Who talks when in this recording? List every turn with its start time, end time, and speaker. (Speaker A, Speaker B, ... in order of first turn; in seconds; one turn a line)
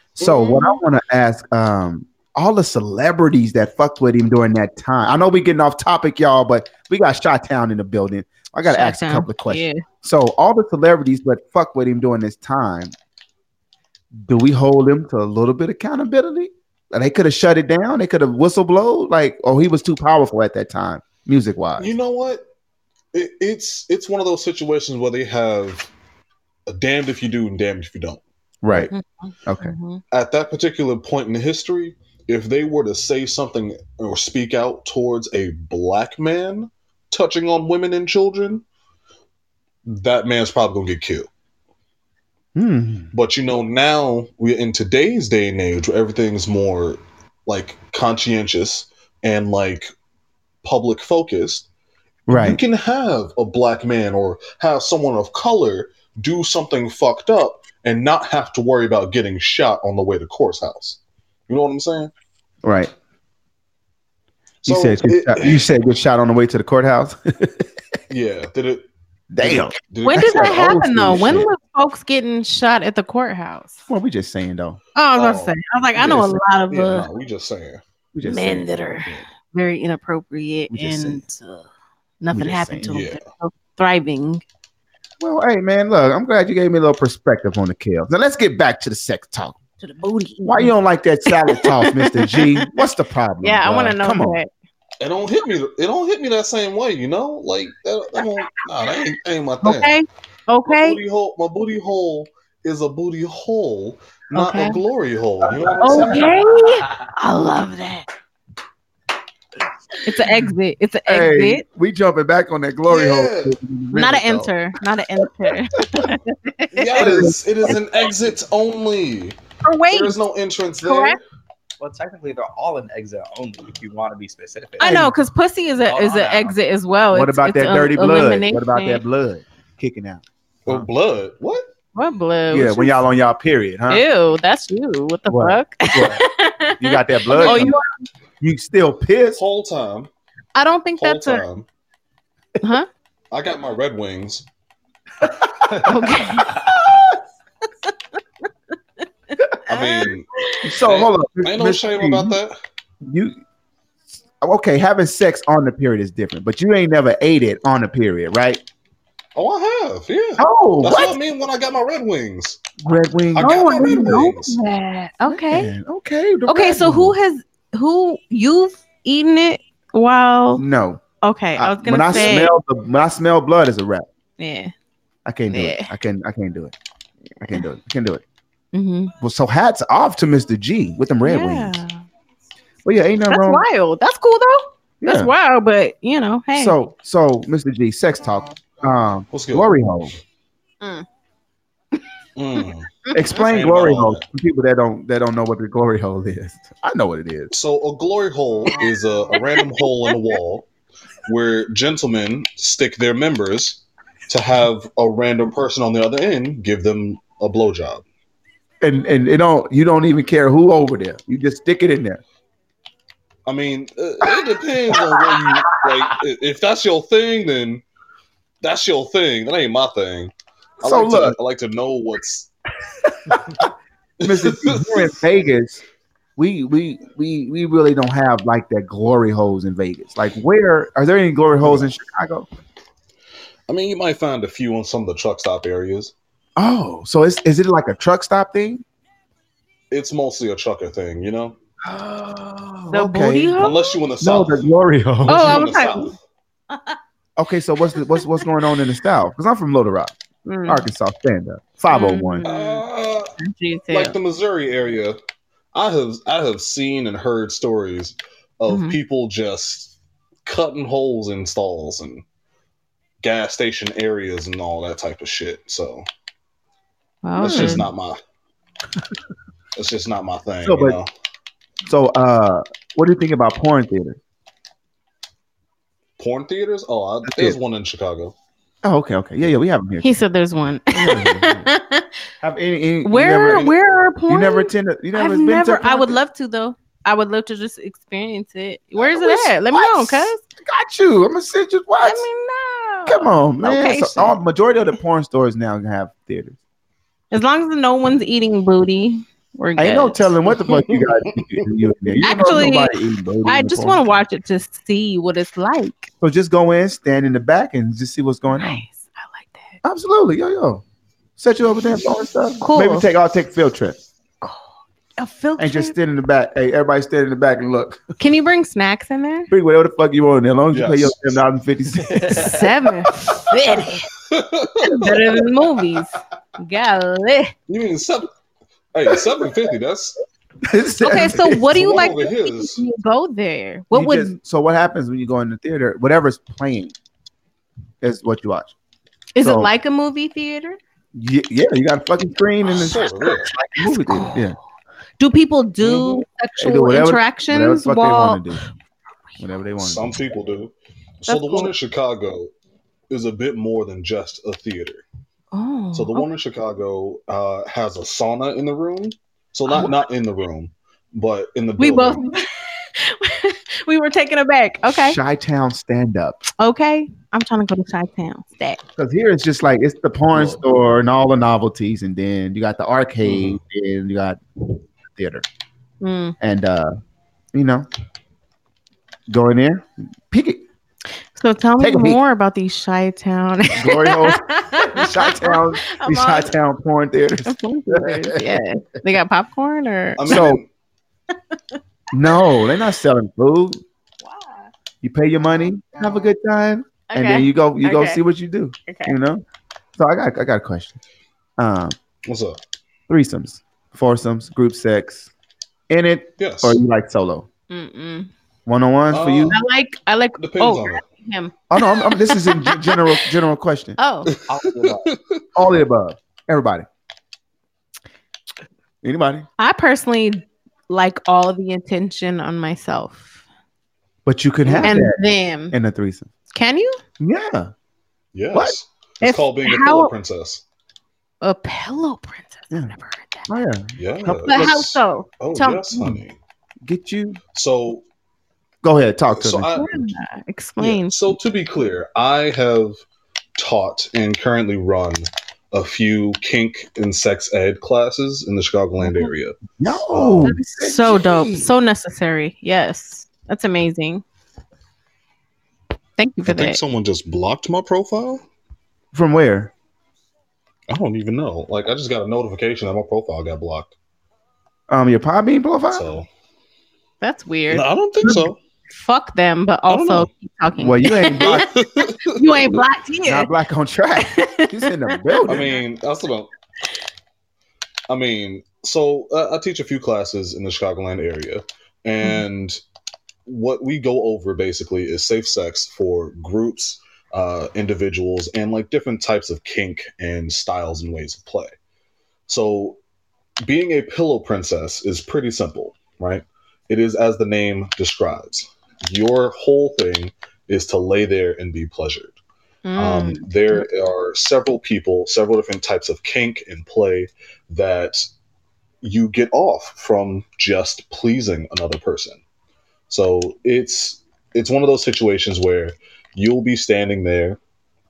Speaker A: 0.2-12.9
Speaker B: 0.2-0.5
Speaker C: 0.2-0.8
Speaker C: 8.7-9.8
Speaker A: 14.2-21.9
Speaker B: 21.8-22.4
Speaker B: 23.1-25.9
Speaker B: 26.7-28.9
Speaker A: 28.6-28.9
Speaker C: 28.9-30.0
Speaker A: 29.4-29.8
Speaker B: 30.1-38.6
Speaker B: 39.9-41.3
Speaker A: 42.5-43.1
Speaker B: 43.1-49.9
Speaker B: 50.6-51.7
Speaker B: 52.3-62.1
Speaker A: 52.3-52.6
Speaker A: 62.6-62.9
Speaker B: 64.6-65.6
Speaker A: 64.7-67.7
Speaker B: 68.1-68.9
Speaker A: 69.3-71.5
Speaker B: 69.4-71.4
Speaker C: 70.0-73.8
Speaker A: 73.9-74.8
Speaker C: 75.0-77.1
Speaker B: 75.2-77.8
Speaker A: 78.1-78.7
Speaker C: 78.2-81.7
Speaker A: 80.7-81.2
Speaker C: 82.2-84.4
Speaker A: 82.3-82.9
Speaker B: 82.9-83.3
Speaker A: 85.2-89.6
Speaker C: 89.8-90.8
Speaker A: 90.5-94.4
Speaker C: 91.3-92.9
Speaker C: 93.4-94.5
Speaker B: 95.0-100.0
Speaker C: 99.6-101.0
Speaker B: 100.7-106.3
Speaker A: 104.3-104.7
Speaker C: 104.4-104.8
Speaker A: 105.6-106.2
Speaker C: 105.8-108.1
Speaker C: 110.0-111.6
Speaker A: 111.1-114.5
Speaker B: 112.9-113.6
Speaker C: 113.9-117.3
Speaker A: 115.8-116.2
Speaker B: 116.7-119.4
Speaker A: 117.0-117.8
Speaker C: 119.6-120.2
Speaker B: 119.9-121.2
Speaker C: 120.8-121.2
Speaker D: 121.8-125.0
Speaker C: 124.8-129.0
Speaker A: 124.8-125.2
Speaker D: 125.8-126.6
Speaker A: 127.1-130.8
Speaker B: 130.7-131.7
Speaker C: 131.9-133.0
Speaker A: 132.5-134.1
Speaker C: 133.9-137.9
Speaker A: 135.3-136.2
Speaker A: 136.8-137.8
Speaker B: 137.3-137.7
Speaker A: 138.4-139.4
Speaker B: 139.4-140.1
Speaker C: 140.6-141.4
Speaker B: 141.0-141.7
Speaker C: 142.6-142.9
Speaker B: 143.3-144.5
Speaker B: 145.7-146.3
Speaker C: 145.8-146.7
Speaker A: 146.5-147.1
Speaker B: 149.7-150.3
Speaker C: 149.7-150.7
Speaker A: 150.6-152.4
Speaker B: 150.8-152.6
Speaker A: 153.0-153.4
Speaker A: 154.4-158.6
Speaker B: 159.4-162.6
Speaker A: 160.4-161.2
Speaker A: 162.8-164.3
Speaker B: 163.3-164.6
Speaker C: 163.4-165.7
Speaker A: 165.3-167.2
Speaker C: 166.5-170.6
Speaker A: 170.6-171.0
Speaker C: 171.2-172.5
Speaker A: 171.6-174.1
Speaker B: 172.1-172.4
Speaker C: 174.4-174.7
Speaker A: 175.2-176.7
Speaker C: 175.5-175.9
Speaker A: 177.4-178.2
Speaker C: 178.7-179.1
Speaker A: 179.2-181.8
Speaker C: 181.2-182.0
Speaker A: 182.8-183.6
Speaker C: 183.3-186.8
Speaker A: 185.0-185.3
Speaker A: 186.6-190.2
Speaker B: 189.3-189.7
Speaker C: 190.8-191.1
Speaker B: 192.4-194.2
Speaker A: 193.1-197.5
Speaker B: 197.5-200.7
Speaker B: 201.3-208.0
Speaker A: 208.8-212.2
Speaker B: 213.5-217.8
Speaker A: 214.3-216.0
Speaker B: 218.6-222.5
Speaker A: 220.8-221.4
Speaker A: 223.1-223.7
Speaker B: 224.2-225.2
Speaker A: 224.2-225.8
Speaker A: 226.4-232.5
Speaker B: 231.6-231.9
Speaker B: 233.7-236.1
Speaker A: 236.6-238.8
Speaker B: 239.9-241.6
Speaker A: 241.8-245.7
Speaker C: 242.9-243.8
Speaker B: 243.6-244.7
Speaker B: 245.2-246.2
Speaker C: 245.3-246.1
Speaker A: 247.4-250.2
Speaker C: 248.0-248.2
Speaker C: 250.5-250.9
Speaker A: 250.7-252.5
Speaker C: 251.9-252.8
Speaker B: 252.4-253.3
Speaker C: 253.4-254.2
Speaker B: 253.9-255.2
Speaker B: 255.7-262.2
Speaker C: 258.7-259.0
Speaker B: 263.2-266.1
Speaker C: 267.2-267.9
Speaker A: 267.4-267.9
Speaker B: 267.4-268.2
Speaker B: 269.8-271.1
Speaker A: 270.6-271.0
Speaker A: 271.9-274.2
Speaker B: 276.2-278.3
Speaker A: 277.3-277.6
Speaker A: 278.8-280.1
Speaker C: 280.0-282.1
Speaker A: 280.9-281.7
Speaker A: 282.4-283.7
Speaker C: 283.0-290.4
Speaker B: 283.5-283.8
Speaker A: 284.3-286.2
Speaker A: 289.0-292.3
Speaker C: 292.0-294.4
Speaker A: 293.1-296.6
Speaker C: 297.3-300.3
Speaker A: 299.8-304.1
Speaker B: 300.6-301.6
Speaker C: 302.2-306.1
Speaker A: 306.2-308.9
Speaker C: 308.5-309.8
Speaker A: 309.8-310.8
Speaker A: 311.4-314.0
Speaker C: 312.6-313.1
Speaker C: 314.4-316.0
Speaker A: 315.6-318.1
Speaker C: 318.2-319.5
Speaker A: 319.5-322.6
Speaker B: 320.7-321.4
Speaker C: 322.2-324.1
Speaker B: 323.8-325.4
Speaker C: 324.8-327.5
Speaker B: 327.7-328.3
Speaker B: 328.9-330.2
Speaker A: 329.1-329.3
Speaker A: 330.6-331.7
Speaker C: 331.0-334.4
Speaker B: 331.5-332.8
Speaker A: 333.9-336.9
Speaker A: 338.0-338.7
Speaker C: 339.4-340.8
Speaker A: 339.4-339.7
Speaker A: 341.1-344.6
Speaker B: 342.7-343.5
Speaker C: 343.8-344.6
Speaker C: 345.2-348.4
Speaker A: 345.8-348.6
Speaker A: 349.4-350.1
Speaker B: 349.8-352.5
Speaker C: 351.3-351.7
Speaker B: 353.1-355.0
Speaker C: 355.5-356.3
Speaker B: 355.9-362.2
Speaker C: 359.7-360.0
Speaker C: 361.8-365.2
Speaker A: 364.9-366.4
Speaker C: 366.6-368.8
Speaker A: 369.0-374.4
Speaker B: 370.3-370.6
Speaker B: 373.2-373.6
Speaker A: 375.1-375.4
Speaker C: 376.0-376.4
Speaker A: 376.4-376.9
Speaker A: 377.5-377.9
Speaker A: 379.3-380.6
Speaker C: 381.4-386.6
Speaker A: 381.8-382.2
Speaker A: 383.7-388.6
Speaker C: 387.5-390.5
Speaker B: 390.2-390.7
Speaker A: 390.3-390.6
Speaker A: 392.1-393.8
Speaker C: 394.2-394.7
Speaker A: 395.0-399.4
Speaker C: 397.1-398.2
Speaker C: 398.9-399.1
Speaker A: 400.0-401.0
Speaker A: 401.6-402.0
Speaker B: 402.2-402.6
Speaker A: 403.1-405.3
Speaker A: 405.9-407.5
Speaker B: 406.4-406.8
Speaker C: 407.7-408.3
Speaker A: 408.7-409.6
Speaker B: 409.1-409.6
Speaker C: 409.5-413.3
Speaker B: 410.4-411.1
Speaker A: 411.7-414.0
Speaker C: 414.0-414.3
Speaker B: 414.6-415.4
Speaker D: 414.6-415.1
Speaker A: 415.6-416.9
Speaker A: 419.0-419.5
Speaker C: 419.6-423.4
Speaker A: 424.2-425.2
Speaker B: 424.7-425.1
Speaker C: 424.8-425.8
Speaker A: 425.7-426.3
Speaker C: 426.5-427.0
Speaker A: 427.2-427.7
Speaker B: 428.3-430.6
Speaker C: 429.2-430.1
Speaker C: 431.4-433.5
Speaker A: 433.5-434.9
Speaker B: 434.0-436.4
Speaker C: 434.5-435.9
Speaker A: 436.9-437.4
Speaker B: 437.5-438.1
Speaker A: 438.8-439.9
Speaker B: 439.3-440.1
Speaker C: 439.7-441.1
Speaker B: 440.8-443.0
Speaker B: 443.6-450.6
Speaker A: 449.8-451.7
Speaker C: 450.4-454.2
Speaker C: 456.2-456.8
Speaker B: 456.5-458.4
Speaker A: 459.1-459.7
Speaker B: 460.9-463.9
Speaker A: 464.9-466.1
Speaker B: 465.9-466.3
Speaker C: 467.2-467.9
Speaker B: 467.7-468.6
Speaker A: 468.2-468.5
Speaker C: 468.9-471.7
Speaker B: 469.9-470.3
Speaker A: 470.8-471.6
Speaker B: 471.4-472.6
Speaker C: 472.3-473.5
Speaker A: 473.2-475.7
Speaker C: 474.2-475.6
Speaker B: 475.5-476.5
Speaker B: 478.1-482.8
Speaker B: 483.5-491.7
Speaker B: 492.5-493.0
Speaker B: 493.6-502.4
Speaker C: 502.9-503.8
Speaker B: 503.0-508.3
Speaker B: 509.0-512.4
Speaker B: 513.1-517.6